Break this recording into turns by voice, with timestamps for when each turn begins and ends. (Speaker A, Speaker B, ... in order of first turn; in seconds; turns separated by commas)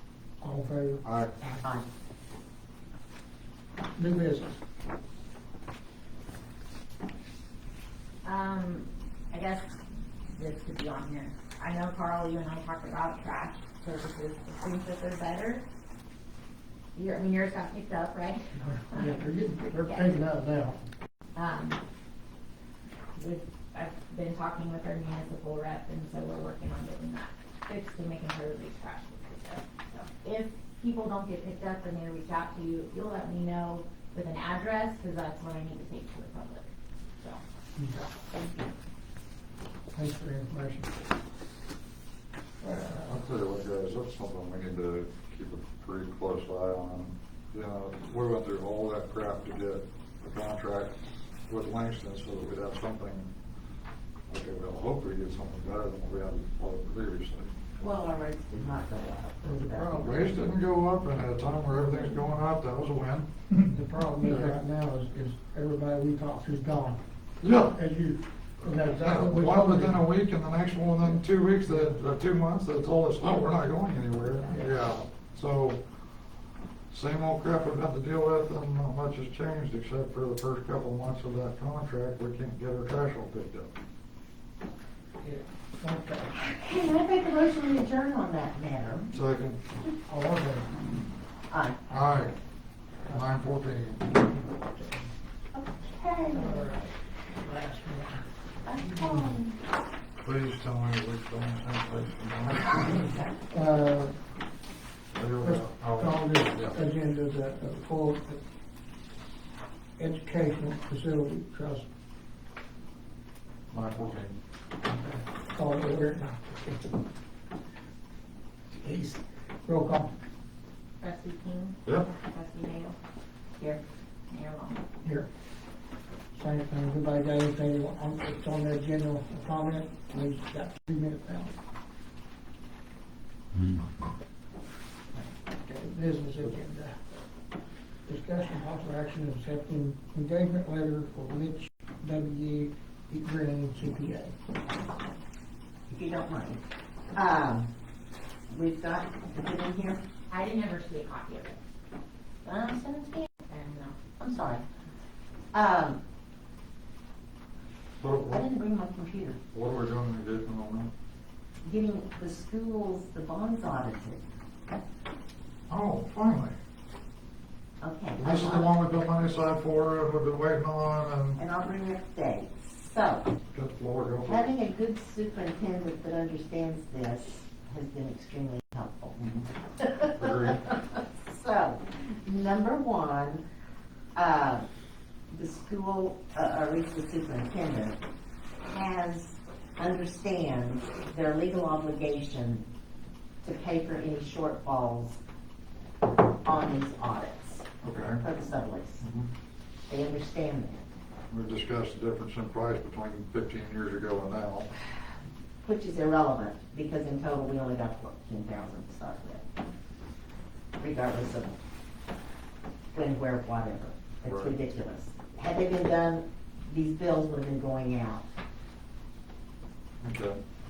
Speaker A: 0.4-1.4, Speaker B: 1.0-1.4, Speaker A: 4.0-4.6, Speaker C: 8.2-15.7, Speaker C: 16.9-19.2, Speaker A: 18.9-20.8, Speaker C: 19.8-20.2, Speaker C: 21.3-21.8, Speaker C: 23.1-37.4, Speaker A: 37.8-38.1, Speaker A: 39.9-41.1, Speaker A: 42.6-43.2, Speaker B: 43.0-51.0, Speaker B: 51.5-53.3, Speaker B: 54.3-57.5, Speaker D: 57.8-60.3, Speaker A: 59.5-60.1, Speaker B: 59.8-63.3, Speaker A: 63.7-67.0, Speaker B: 64.2-64.5, Speaker B: 67.4-67.8, Speaker A: 67.6-70.0, Speaker B: 68.7-75.8, Speaker A: 74.4-74.7, Speaker B: 76.9-83.7, Speaker A: 85.2-86.3, Speaker D: 86.3-89.1, Speaker B: 89.1-89.6, Speaker A: 90.1-90.8, Speaker D: 91.5-91.8, Speaker B: 91.9-92.3, Speaker B: 93.1-94.1, Speaker A: 94.1-95.1, Speaker D: 95.5-96.7, Speaker A: 96.3-98.2, Speaker D: 98.6-99.6, Speaker A: 98.8-99.3, Speaker B: 100.2-102.7, Speaker D: 102.6-103.3, Speaker A: 103.5-104.2, Speaker B: 105.1-106.8, Speaker A: 105.4-108.4, Speaker A: 110.0-111.9, Speaker B: 113.7-114.4, Speaker A: 114.8-116.9, Speaker A: 118.8-120.1, Speaker C: 121.0-123.0, Speaker C: 123.6-124.8, Speaker A: 125.0-125.3, Speaker A: 126.3-131.6, Speaker A: 135.2-137.0, Speaker A: 138.1-144.3, Speaker D: 145.9-147.7, Speaker D: 148.5-150.0, Speaker C: 150.3-151.6, Speaker D: 152.4-153.3, Speaker C: 153.5-154.0, Speaker D: 154.2-154.6, Speaker D: 155.5-156.0, Speaker B: 158.0-158.5, Speaker D: 158.3-159.4, Speaker B: 159.5-160.9, Speaker D: 161.6-164.2, Speaker B: 165.7-166.6, Speaker D: 167.8-168.7, Speaker B: 168.2-171.4, Speaker D: 171.4-173.3, Speaker B: 173.5-174.4, Speaker D: 174.2-183.4, Speaker B: 180.2-180.6, Speaker D: 184.1-184.7, Speaker D: 185.3-188.0, Speaker D: 188.7-192.7, Speaker D: 193.4-195.2, Speaker D: 196.4-199.1, Speaker B: 197.8-198.2, Speaker B: 199.0-199.3, Speaker D: 199.9-200.8, Speaker B: 201.3-204.7, Speaker D: 205.6-209.5, Speaker D: 210.8-211.6, Speaker D: 212.9-218.3, Speaker B: 214.2-214.5, Speaker B: 220.0-220.4